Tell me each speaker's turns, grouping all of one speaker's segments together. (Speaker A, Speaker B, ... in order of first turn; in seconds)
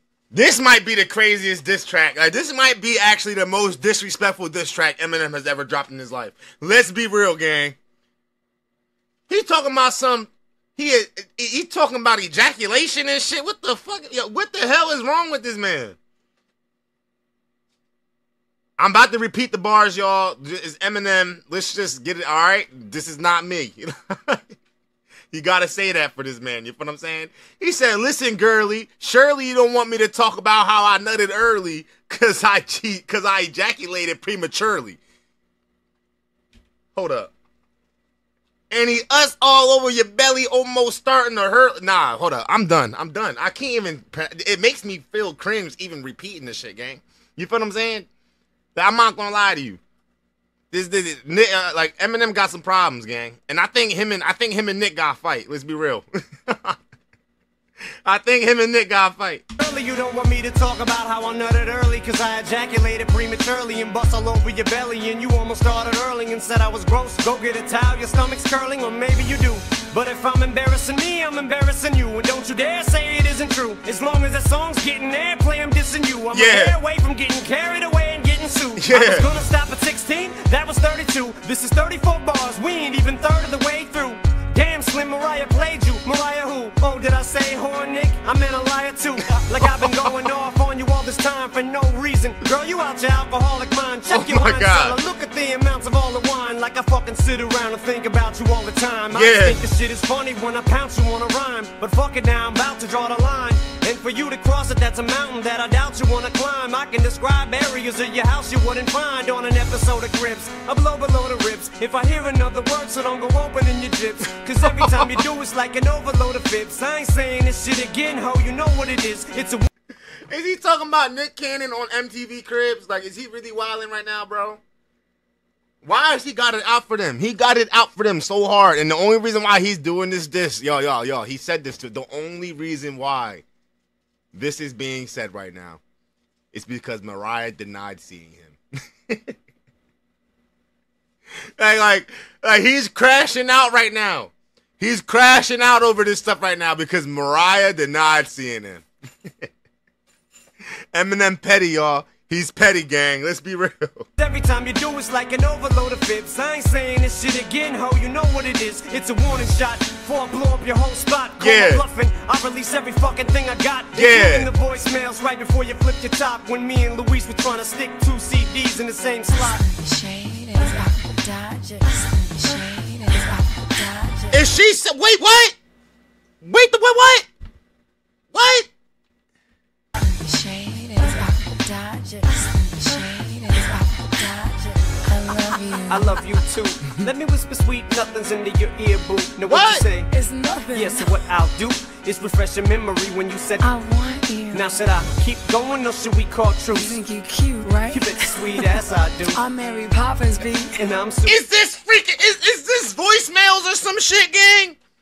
Speaker A: 0.3-7.8, 9.3-16.0, 18.8-24.6, 25.3-35.0, 37.0-37.3, 38.7-48.1, 48.8-49.8, 50.7-56.8, 58.0-59.4, 76.3-76.8, 78.8-79.3, 89.4-89.9, 94.1-95.0, 99.1-99.6, 114.8-115.2, 120.3-124.6, 125.8-133.4, 134.3-135.8, 136.5-139.4, 141.6-149.5, 150.9-154.1, 161.4-161.8, 163.9-164.5, 174.3-175.6, 176.4-177.3, 178.3-178.7, 189.5-189.9, 201.3-204.8
Speaker B: 59.6-119.7, 154.2-169.6, 185.9-190.1, 190.7-193.7, 194.5-197.0, 197.9-199.4, 200.8-201.4
Speaker C: 169.3-174.4, 180.0-186.2, 190.1-191.2, 193.6-194.7, 196.8-198.8, 199.3-200.8